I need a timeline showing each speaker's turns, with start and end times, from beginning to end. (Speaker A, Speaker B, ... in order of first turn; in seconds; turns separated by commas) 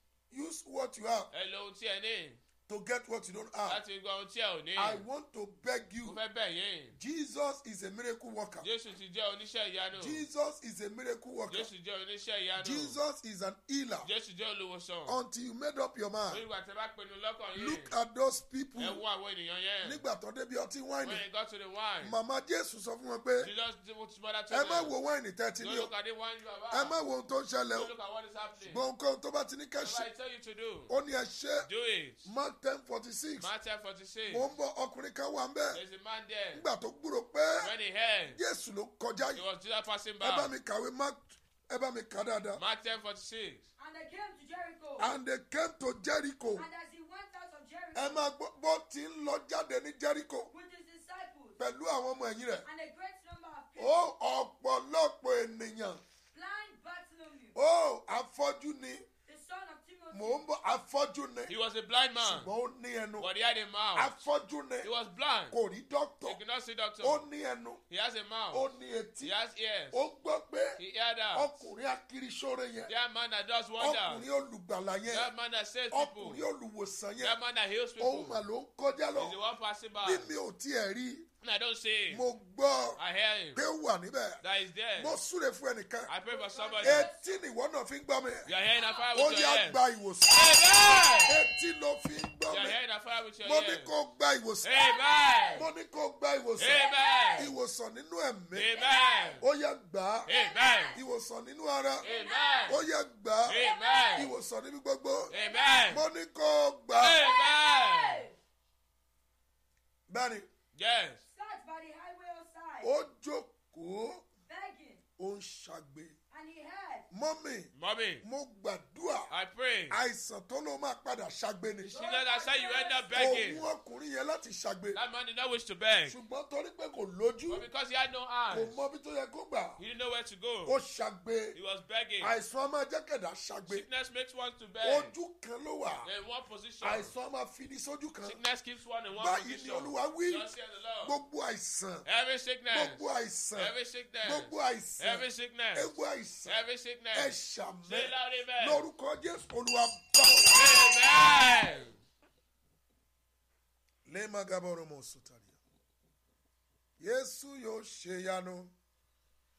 Speaker A: 0.3-1.3, Speaker B: 1.3-2.4, Speaker A: 2.7-3.8, Speaker B: 3.6-5.0, Speaker A: 4.8-6.2, Speaker B: 6.0-7.0, Speaker A: 7.0-8.7, Speaker B: 8.6-10.2, Speaker A: 9.9-11.7, Speaker B: 11.5-13.0, Speaker A: 12.6-14.1, Speaker B: 14.0-15.2, Speaker A: 15.1-16.4, Speaker B: 16.3-17.9, Speaker A: 17.5-19.0, Speaker B: 18.8-20.0, Speaker A: 19.8-21.2, Speaker B: 21.0-22.1, Speaker A: 22.0-23.5, Speaker B: 23.4-24.9, Speaker A: 24.5-25.9, Speaker B: 25.6-27.0, Speaker A: 26.7-27.9, Speaker B: 27.7-28.8, Speaker A: 28.6-30.1, Speaker B: 29.8-30.9, Speaker A: 30.9-31.7, Speaker B: 31.6-32.2, Speaker A: 32.2-33.5, Speaker B: 33.4-34.5, Speaker A: 34.3-35.8, Speaker B: 35.7-36.6, Speaker A: 36.5-37.7, Speaker B: 37.6-38.4, Speaker A: 38.3-39.4, Speaker B: 39.3-40.5, Speaker A: 40.2-42.6, Speaker B: 42.5-43.7, Speaker C: 43.8-45.1, Speaker A: 45.0-46.7, Speaker C: 46.5-48.3, Speaker A: 47.9-50.5, Speaker C: 50.5-51.6, Speaker A: 51.6-52.7, Speaker C: 52.6-54.0, Speaker A: 53.8-56.0, Speaker C: 56.3-57.5, Speaker A: 57.5-59.0, Speaker C: 59.2-60.4, Speaker A: 60.1-61.5, Speaker B: 61.5-62.5, Speaker A: 62.2-63.3, Speaker B: 63.2-64.1, Speaker A: 63.9-64.9, Speaker B: 64.8-65.5, Speaker A: 65.5-66.4, Speaker B: 66.2-67.2, Speaker A: 67.0-67.8, Speaker B: 67.9-68.7, Speaker A: 68.5-69.3, Speaker B: 69.2-70.0, Speaker A: 69.9-70.8, Speaker B: 70.8-71.6, Speaker A: 71.3-72.9, Speaker B: 72.9-74.2, Speaker A: 73.8-75.3, Speaker B: 75.1-76.5, Speaker A: 75.9-77.4, Speaker B: 77.2-78.4, Speaker A: 78.0-79.4, Speaker B: 79.1-80.3, Speaker A: 80.0-81.3, Speaker B: 81.4-82.2, Speaker A: 82.1-83.0, Speaker B: 83.0-83.6, Speaker A: 83.5-84.4, Speaker B: 84.4-85.2, Speaker A: 85.0-86.1, Speaker B: 86.1-87.1, Speaker C: 86.2-87.3, Speaker A: 86.8-88.5, Speaker B: 88.5-91.4, Speaker C: 88.7-89.0, Speaker A: 89.1-90.7, Speaker C: 90.4-91.3, Speaker A: 91.2-92.8, Speaker B: 92.5-93.9, Speaker A: 93.4-94.8, Speaker B: 94.6-95.7, Speaker C: 94.7-95.7, Speaker A: 95.5-98.7, Speaker B: 96.6-97.5, Speaker C: 96.7-97.5, Speaker B: 98.5-99.4, Speaker C: 98.7-99.4, Speaker A: 99.4-100.3, Speaker B: 100.2-101.0, Speaker C: 100.3-101.0, Speaker A: 100.9-102.1, Speaker C: 102.0-102.8, Speaker B: 102.0-102.8, Speaker A: 102.7-105.3, Speaker B: 103.5-104.3, Speaker C: 103.5-104.3, Speaker C: 105.3-105.9, Speaker B: 105.3-106.0, Speaker A: 105.9-107.2, Speaker B: 107.0-108.3, Speaker C: 107.2-108.3, Speaker A: 110.1-110.5, Speaker B: 110.7-111.2, Speaker C: 111.3-112.9, Speaker A: 112.8-114.2, Speaker C: 114.5-115.0, Speaker A: 115.2-116.2, Speaker C: 116.3-117.1, Speaker A: 117.1-119.3, Speaker B: 117.7-118.2, Speaker B: 119.3-120.0, Speaker A: 119.9-122.0, Speaker B: 121.8-123.7, Speaker C: 121.8-123.4, Speaker A: 123.1-125.0, Speaker B: 124.9-126.2, Speaker A: 126.1-127.7, Speaker B: 127.5-128.8, Speaker A: 128.5-129.8, Speaker B: 129.8-130.8, Speaker A: 130.6-131.6, Speaker B: 131.5-132.3, Speaker A: 132.2-133.9, Speaker B: 133.7-135.1, Speaker A: 134.8-136.1, Speaker B: 136.0-137.1, Speaker A: 136.8-138.4, Speaker B: 138.2-141.2, Speaker A: 139.1-140.5, Speaker A: 141.0-142.1, Speaker B: 142.0-143.0, Speaker A: 142.7-146.6, Speaker B: 143.5-147.3, Speaker A: 147.1-150.8, Speaker B: 147.8-148.8, Speaker B: 150.5-152.0, Speaker A: 154.1-155.6, Speaker A: 157.0-158.7